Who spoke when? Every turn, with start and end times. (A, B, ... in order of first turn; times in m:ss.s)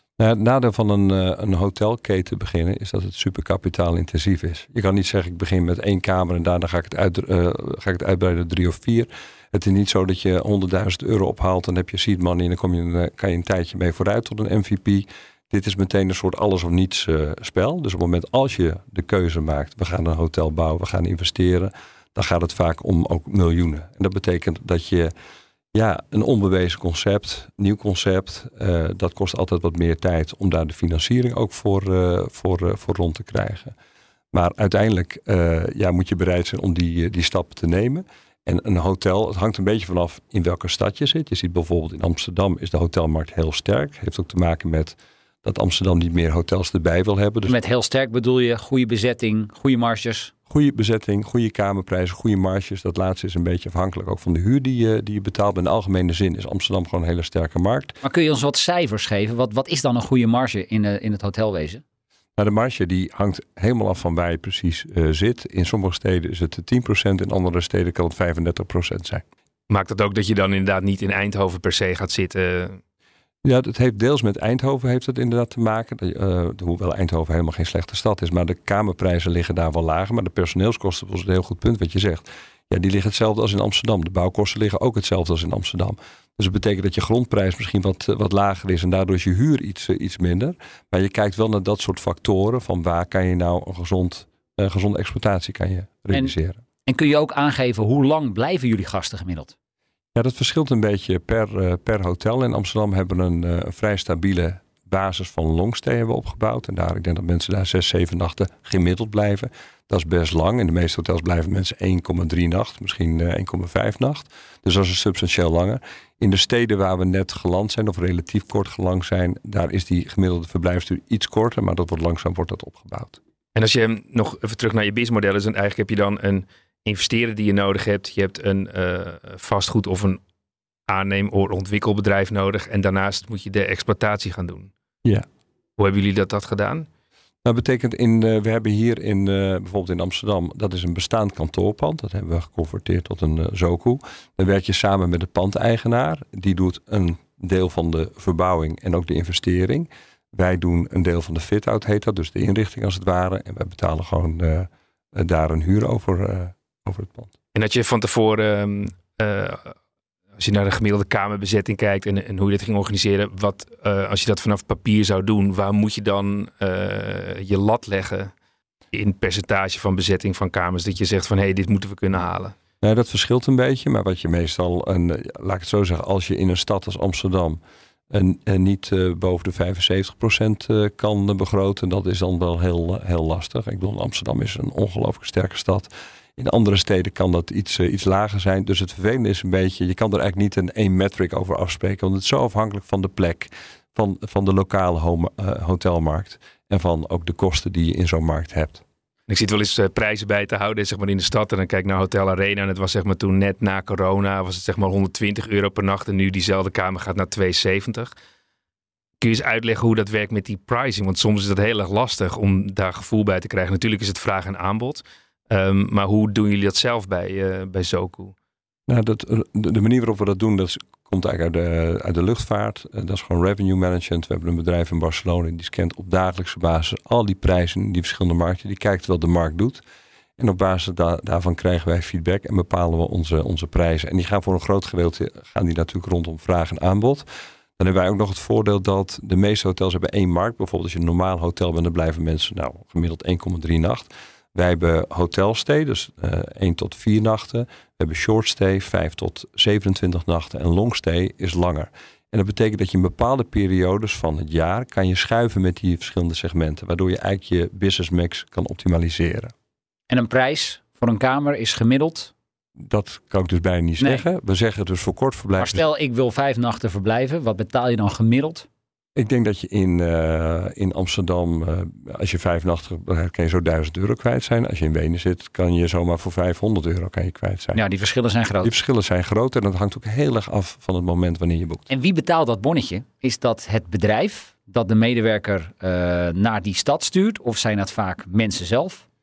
0:00.2-0:25.1 A
0:25.7-0:33.7 A
0:34.3-0:47.6 A
0:47.5-0:50.3 B
0:50.5-0:58.0 A
0:58.0-1:01.8 B
1:02.4-1:09.2 A
1:09.7-1:12.8 C
1:13.4-1:36.6 A
1:36.9-1:39.5 B
1:40.1-2:03.2 A
2:03.5-2:10.2 C
2:10.9-2:14.7 C
2:15.8-2:16.9 C
2:17.4-2:37.3 A
2:37.5-2:39.7 C
2:40.4-2:48.3 C
2:48.9-2:52.6 C
2:52.8-3:18.8 A
3:19.3-3:28.1 C
3:29.2-3:38.3 C
3:38.9-3:49.8 A
3:50.4-3:57.2 A
3:57.8-4:19.5 A
4:20.1-4:22.3 B
4:22.8-4:25.8 A
4:25.6-4:28.7 B
4:29.2-4:37.8 A
4:37.8-4:38.7 B
4:38.6-4:41.8 A
4:41.9-4:49.0 B